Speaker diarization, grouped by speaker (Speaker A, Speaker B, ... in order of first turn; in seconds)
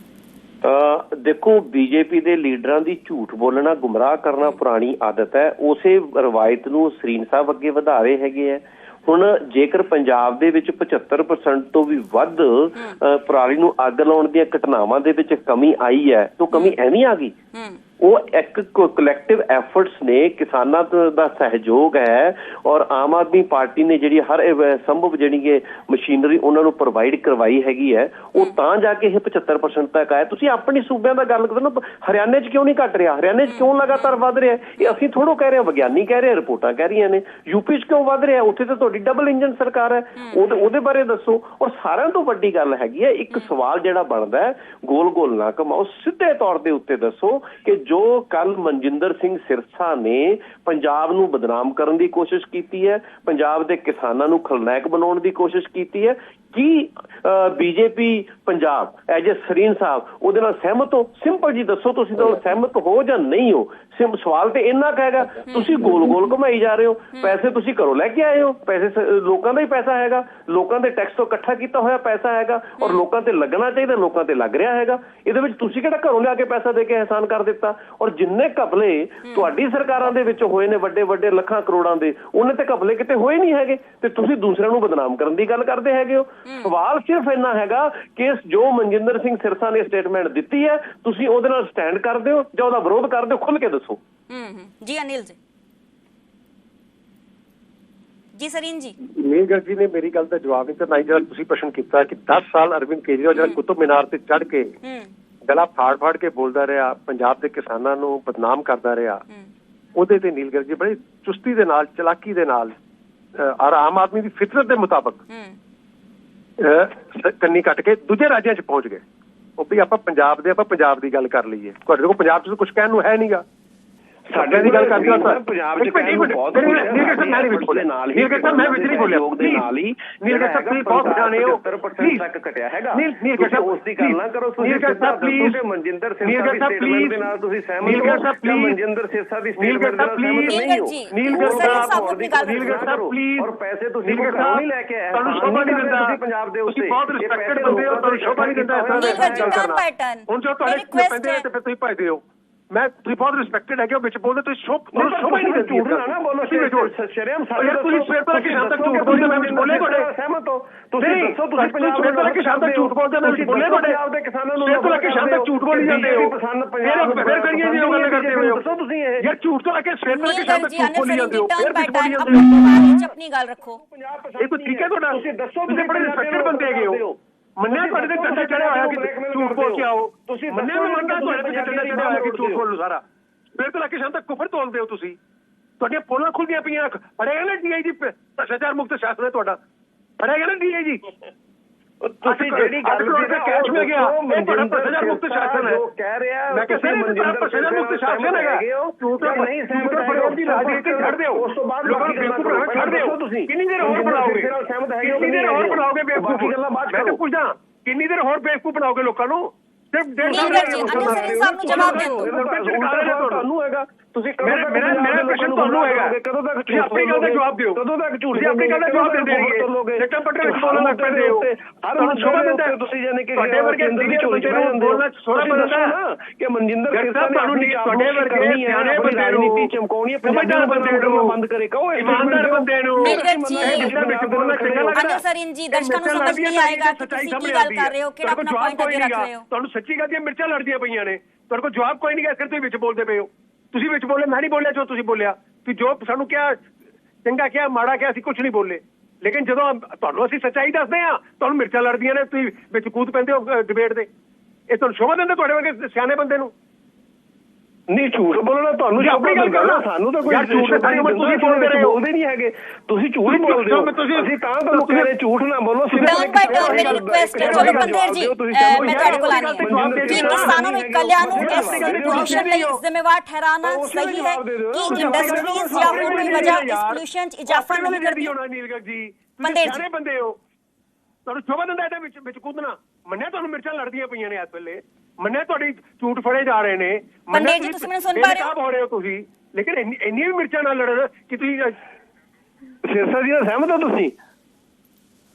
Speaker A: 0.6-17.4, 18.0-94.0, 124.3-149.6, 154.9-169.3, 173.8-182.7, 192.0-207.2, 210.2-235.0, 257.9-272.6, 273.6-276.6, 292.8-294.1
Speaker B: 17.5-17.8, 33.5-34.1, 86.5-86.7, 94.3-95.4, 98.3-99.0, 104.8-105.1, 115.3-115.6, 140.5-142.9, 148.9-151.5, 170.1-173.8, 210.2-212.3, 233.0-233.9, 234.9-239.4, 266.0-278.4, 279.4-279.9, 287.3-288.5
Speaker C: 99.1-104.8, 105.5-109.2, 109.9-112.7, 113.4-115.2, 116.6-119.0, 119.6-123.4, 124.3-129.7, 130.2-132.2, 132.9-135.6, 136.2-137.3, 137.8-138.8, 139.6-143.5, 144.1-156.9, 157.6-160.1, 161.0-164.0, 164.6-168.6, 169.2-172.6, 174.4-177.1, 177.6-183.0, 183.6-185.2, 185.8-189.6, 190.2-191.1, 192.2-195.8, 196.5-213.4, 214.4-216.2, 216.7-222.8, 223.4-226.0, 226.9-229.7, 230.2-231.4, 232.0-246.7, 247.2-254.1, 254.7-256.5, 259.0-262.0, 263.2-265.1, 265.9-268.0, 268.7-270.6, 271.3-272.6, 274.9-280.4, 281.2-291.8